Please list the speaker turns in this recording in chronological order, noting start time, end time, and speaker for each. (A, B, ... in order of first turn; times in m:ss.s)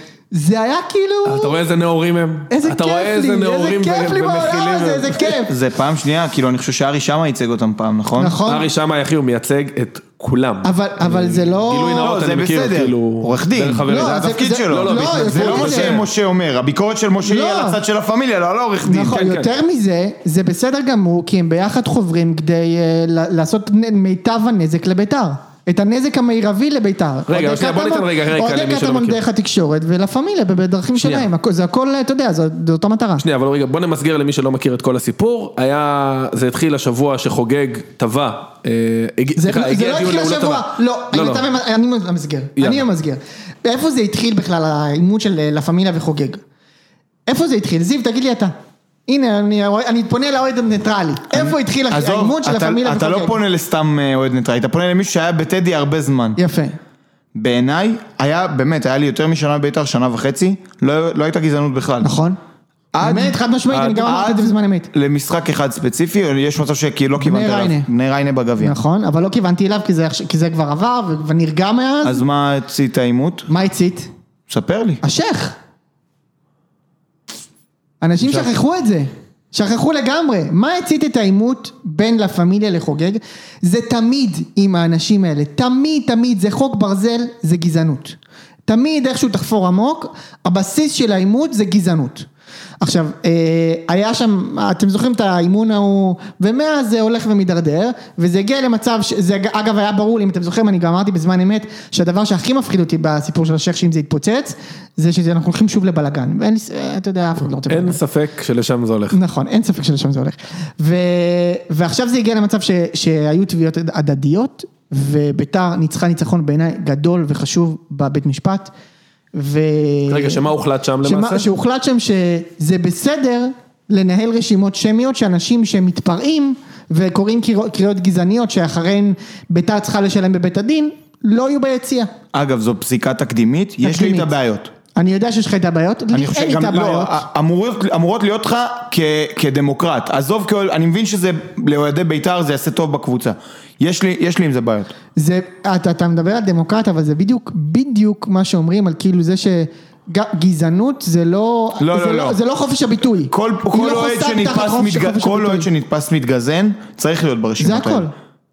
0:00.3-0:01.6 A
0:01.2-0:05.3 B
0:02.5-0:05.5 A
0:05.4-0:08.4 C
0:08.2-0:08.7 A
0:08.4-0:16.0 B
0:10.6-0:12.1 A
0:12.0-0:19.2 C
0:13.8-0:16.0 A
0:17.2-0:17.8 A
0:18.8-0:33.2 A
0:19.1-0:19.5 B
0:27.3-0:29.2 B
0:31.0-0:31.3 B
0:33.2-0:41.4 B
0:39.4-0:46.4 A
0:42.6-0:42.8 B
0:47.3-0:48.5 A
0:49.1-0:53.4 A
0:51.3-0:56.4 C
0:56.4-0:56.8 A
0:57.3-1:02.1 C
1:02.0-1:02.4 A
1:02.9-1:08.8 C
1:03.0-1:04.9 A
1:07.2-1:07.9 A
1:08.6-1:12.2 A
1:12.0-1:13.5 C
1:13.5-1:14.1 A
1:14.5-1:15.0 C
1:15.0-1:15.6 A
1:18.0-1:32.3 A
1:32.8-1:48.0 A
1:47.6-1:49.2 B
1:49.1-1:58.7 A
1:59.3-2:00.5 A
2:00.1-2:01.5 B
2:01.0-2:12.1 A
2:12.3-2:14.7 C
2:13.8-2:14.3 A
2:15.0-2:17.2 A
2:16.1-2:24.9 C
2:25.2-2:35.7 A
2:31.8-2:32.4 C
2:33.3-2:38.1 C
2:37.6-2:38.1 A